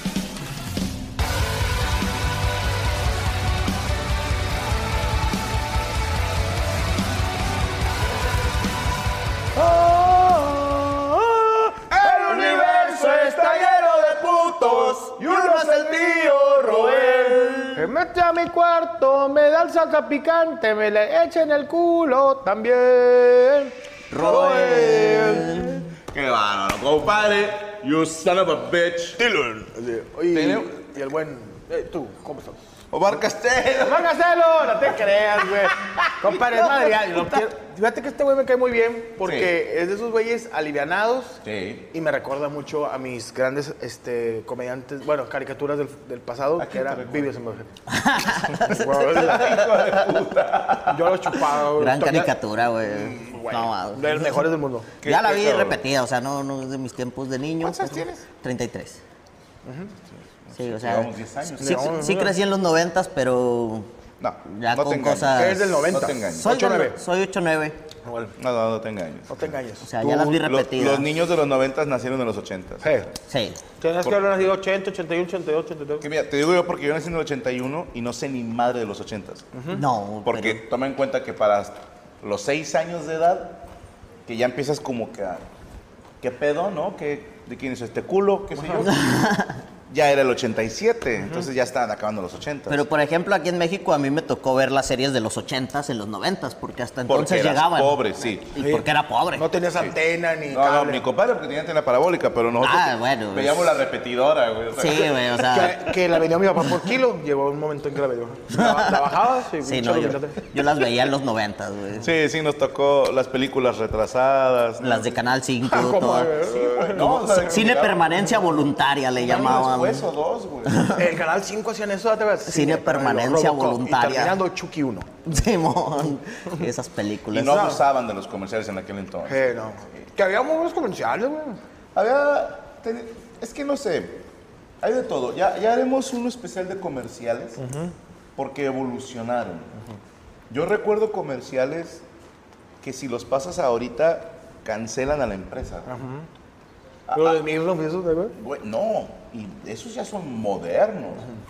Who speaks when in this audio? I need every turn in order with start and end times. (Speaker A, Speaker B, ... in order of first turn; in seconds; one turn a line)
Speaker A: 9.6-11.2
Speaker A: 11.9-17.9
Speaker B: 12.0-13.8
Speaker B: 17.7-25.6
Speaker C: 24.1-25.8
Speaker A: 24.6-29.2
Speaker B: 29.2-32.6
Speaker A: 30.3-30.8
Speaker A: 32.9-34.1
Speaker B: 33.8-47.7
Speaker A: 35.7-37.2
Speaker A: 39.2-39.5
Speaker A: 41.4-41.9
Speaker A: 46.6-47.3
Speaker C: 47.9-48.9
Speaker A: 48.5-51.3
Speaker B: 48.6-49.7
Speaker B: 50.9-52.3
Speaker C: 51.7-54.5
Speaker B: 53.2-55.0
Speaker C: 55.0-59.0
Speaker A: 55.0-55.8
Speaker A: 57.6-58.2
Speaker B: 59.6-59.9
Speaker A: 60.2-62.0
Speaker C: 60.5-63.9
Speaker B: 61.6-62.4
Speaker A: 64.2-66.6
Speaker C: 64.5-65.8
Speaker B: 65.3-67.0
Speaker C: 66.4-67.8
Speaker B: 68.0-68.4
Speaker A: 68.4-69.5
Speaker B: 69.3-70.3
Speaker C: 69.8-71.1
Speaker A: 70.4-73.0
Speaker B: 72.8-73.1
Speaker C: 73.3-73.7
Speaker B: 73.7-76.0
Speaker A: 76.0-79.5
Speaker B: 79.5-79.8
Speaker C: 79.7-80.6
Speaker A: 80.2-83.6
Speaker A: 84.3-85.4
Speaker A: 86.2-89.2
Speaker B: 88.6-88.9
Speaker C: 88.8-89.6
Speaker A: 89.9-92.8
Speaker C: 92.7-99.6
Speaker A: 97.1-98.6
Speaker B: 98.6-101.0
Speaker A: 100.5-105.2
Speaker C: 102.6-103.7
Speaker C: 104.8-106.0
Speaker B: 105.4-110.5
Speaker C: 108.5-109.0
Speaker C: 109.6-112.1
Speaker A: 112.0-115.1
Speaker C: 114.8-116.4
Speaker B: 115.7-117.6
Speaker A: 116.5-118.2
Speaker C: 117.2-120.1
Speaker A: 119.2-120.8
Speaker C: 120.7-121.1
Speaker B: 120.9-125.2
Speaker C: 122.5-124.4
Speaker C: 125.2-127.7
Speaker A: 127.3-129.5
Speaker B: 127.4-127.8
Speaker B: 129.3-131.6
Speaker A: 131.9-134.2
Speaker A: 134.8-137.6
Speaker B: 137.6-137.9
Speaker A: 138.4-139.7
Speaker A: 140.5-142.0
Speaker A: 142.8-145.9
Speaker B: 145.9-146.3
Speaker A: 147.1-147.4
Speaker B: 147.1-148.3
Speaker A: 148.4-151.3